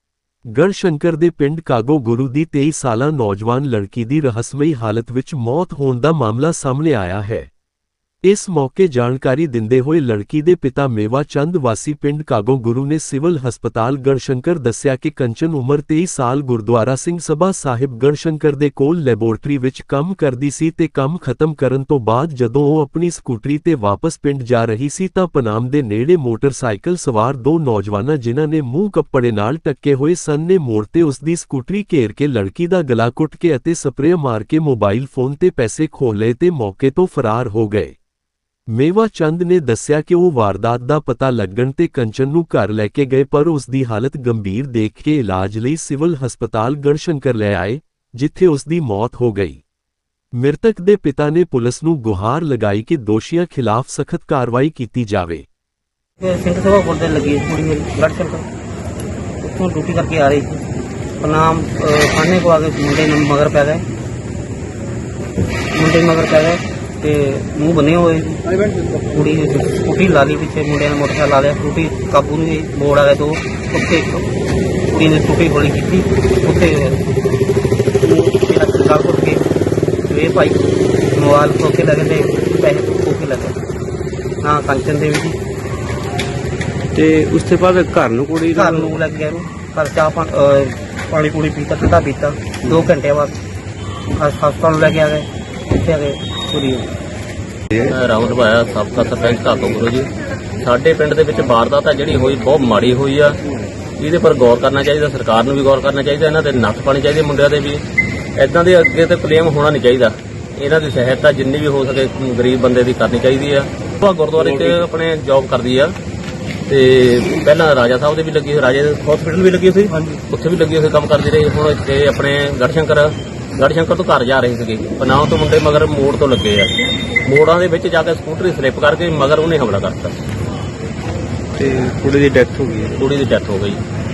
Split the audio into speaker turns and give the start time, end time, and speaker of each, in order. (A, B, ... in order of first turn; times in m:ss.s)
0:00.5-0:07.5 A
0:08.2-0:38.0 A
0:38.7-0:49.6 A
0:50.3-0:55.4 A
0:56.2-0:58.5 B
0:59.4-1:00.6 B
1:01.2-1:03.8 B
1:05.7-1:14.2 B
1:14.9-1:17.0 B
1:18.0-1:19.4 B
1:20.1-1:20.6 B
1:21.1-1:23.6 B
1:24.4-1:25.4 B
1:26.9-1:29.0 C
1:28.5-1:33.3 B
1:34.1-1:36.9 B
1:37.8-1:43.4 D
1:44.0-1:47.8 D
1:48.4-1:56.0 D
1:54.4-1:54.8 C
1:56.7-2:10.2 D
1:59.9-2:00.2 B
2:11.6-2:13.0 C
2:13.0-2:13.8 D